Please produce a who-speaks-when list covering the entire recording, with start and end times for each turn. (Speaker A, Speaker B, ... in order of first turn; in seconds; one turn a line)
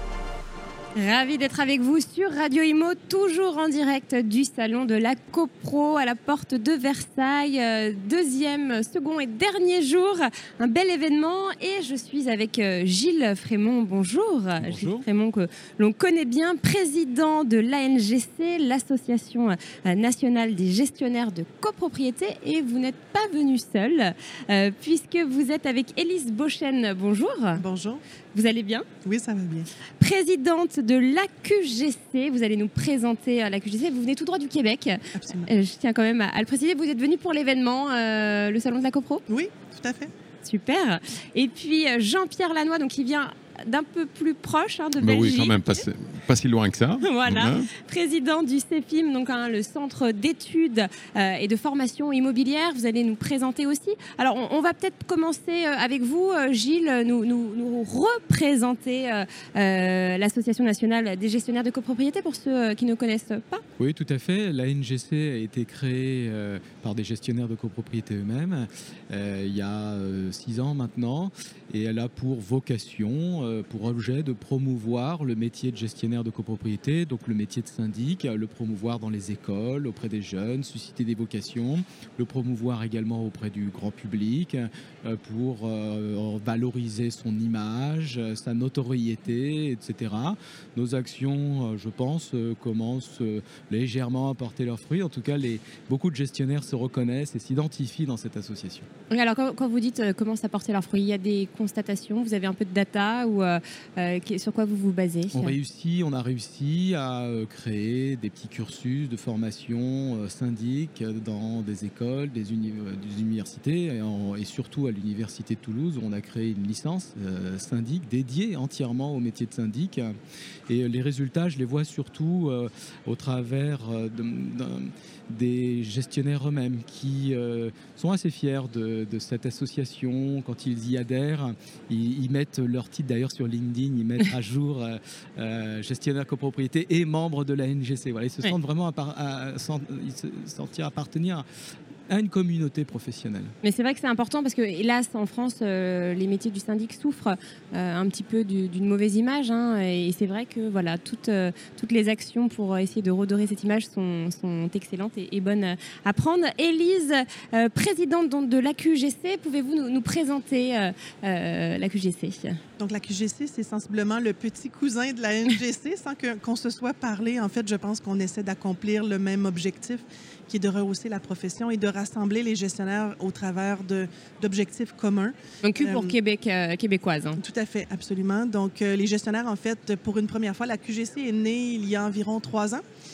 Speaker A: 0.9-27.6
Speaker B: 14.6-15.0
Speaker C: 27.6-28.0
Speaker A: 28.3-28.9
Speaker C: 29.0-29.7
Speaker A: 30.0-39.2
Speaker C: 35.1-35.5
Speaker C: 39.3-40.1
Speaker A: 40.4-45.8
Speaker D: 45.0-47.7
Speaker A: 47.0-63.6
Speaker B: 63.8-98.9
Speaker A: 99.1-105.5
Speaker B: 105.3-120.2
Speaker B: 120.7-141.4
Speaker B: 142.1-143.5
Speaker A: 143.6-162.6
Speaker C: 162.8-176.1
Speaker A: 175.6-177.4
Speaker C: 177.4-182.8